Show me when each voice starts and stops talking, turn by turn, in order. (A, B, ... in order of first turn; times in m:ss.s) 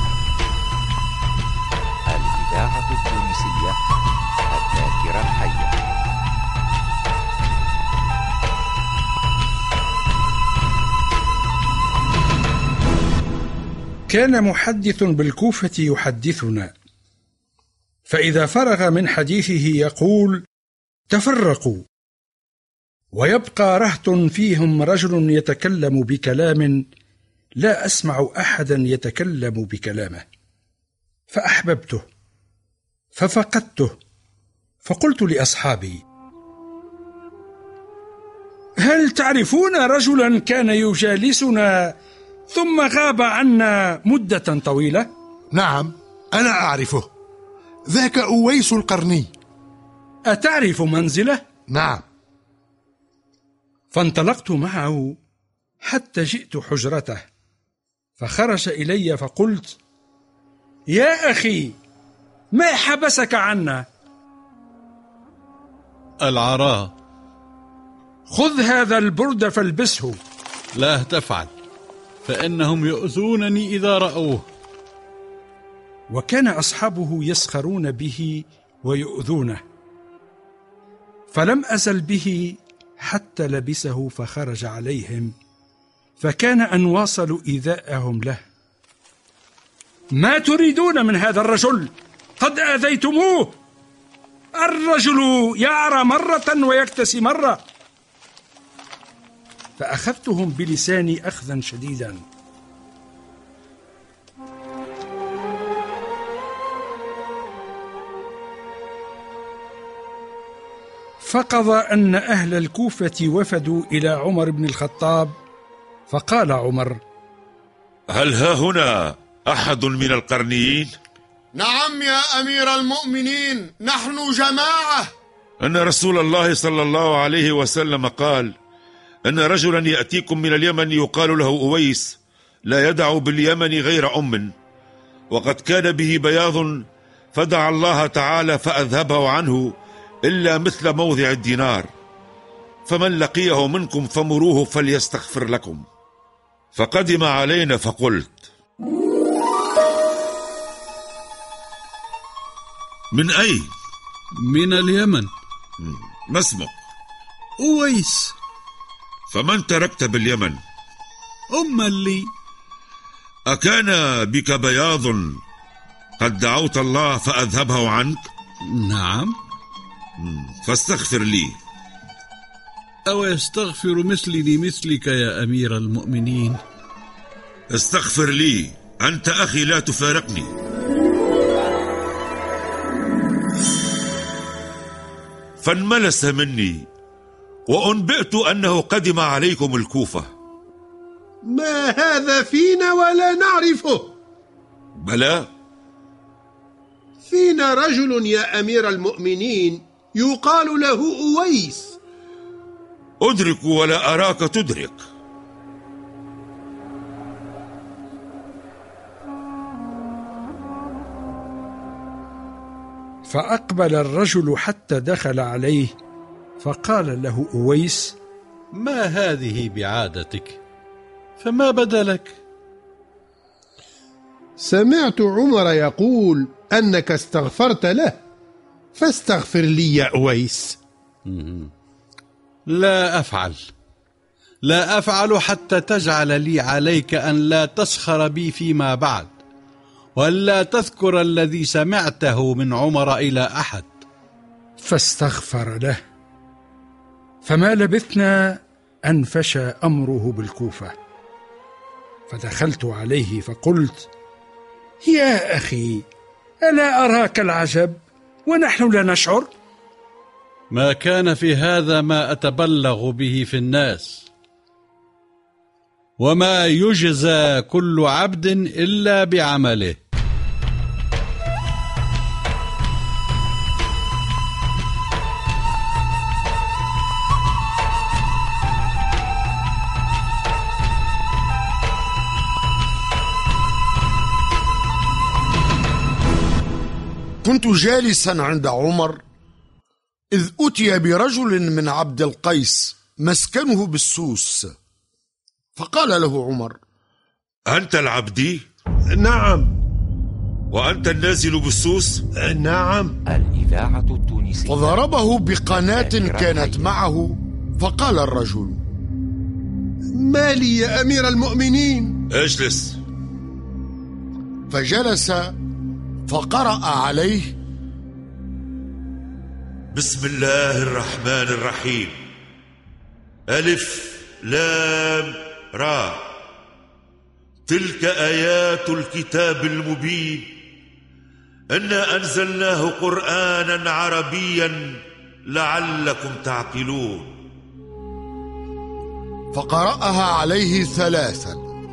0:02.1-0:03.8 A
0:04.5-0:05.8 A
0:14.1-0:16.7 B
0:18.1-0:20.4 B
0:21.1-0:21.8 B
0:23.1-0:26.8 B
0:27.6-0:30.2 B
0:31.3-0:32.0 B
0:33.2-0:33.9 B
0:34.8-0:36.0 B
0:38.8-0:42.0 B
0:42.5-0:45.1 B
0:45.5-0:47.1 C
0:47.9-0:49.3 C
0:50.3-0:51.4 B
0:51.7-0:52.0 C
0:53.9-0:55.2 B
0:55.8-0:57.2 B
0:58.2-0:59.8 B
1:00.9-1:01.8 B
1:02.5-1:03.8 B
1:06.2-1:06.9 D
1:08.3-1:10.2 B
1:10.8-1:11.5 D
1:12.2-1:14.5 D
1:16.1-1:19.6 B
1:21.3-1:25.3 B
1:26.2-1:28.4 B
1:30.1-1:33.6 B
1:34.6-1:37.6 B
1:39.8-1:42.2 B
1:51.2-1:55.3 B
1:56.1-1:57.0 B
1:58.1-2:00.9 E
2:01.5-2:05.1 F
2:05.6-2:08.5 E
2:09.3-2:12.2 E
2:12.7-2:14.5 E
2:15.3-2:19.8 E
2:20.3-2:21.9 E
2:22.9-2:25.8 E
2:26.8-2:28.4 E
2:33.1-2:33.7 E
2:34.4-2:35.3 D
2:35.8-2:36.7 E
2:37.6-2:38.4 D
2:39.3-2:40.6 E
2:41.5-2:42.3 D
2:43.5-2:45.4 E
2:46.2-2:48.3 E
2:48.6-2:49.4 D
2:50.2-2:51.6 E
2:53.1-2:56.6 D
2:57.7-3:00.5 E
3:05.6-3:06.9 E
3:07.7-3:10.3 E
3:11.4-3:14.1 G
3:15.0-3:15.5 E
3:17.3-3:22.0 G
3:23.2-3:25.0 E
3:33.3-3:35.9 B
3:36.6-3:38.2 B
3:38.7-3:40.6 D
3:41.4-3:42.4 D
3:44.6-3:48.2 G
3:49.0-3:50.8 G
3:51.3-3:51.7 D
3:52.7-3:53.7 D
3:54.6-3:59.3 D
4:00.2-4:04.0 D
4:04.8-4:06.0 B
4:07.4-4:10.9 B
4:12.3-4:14.1 B
4:15.0-4:16.1 B
4:16.7-4:19.5 B
4:20.7-4:24.3 D
4:26.2-4:30.0 D
4:47.4-4:49.2 F
4:50.3-4:54.7 F
4:55.8-4:56.8 F
4:57.7-4:58.6 E
4:59.1-4:59.7 G
5:00.7-5:02.2 E
5:02.5-5:03.2 G
5:03.3-5:05.0 A
5:04.7-5:08.8 F
5:05.7-5:07.0 A
5:10.2-5:12.1 G
5:12.3-5:13.0 E
5:14.7-5:15.6 F
5:16.3-5:17.5 F
5:19.9-5:22.2 E
5:23.5-5:26.2 E
5:27.7-5:30.5 E
5:31.7-5:37.3 E
5:39.5-5:41.6 F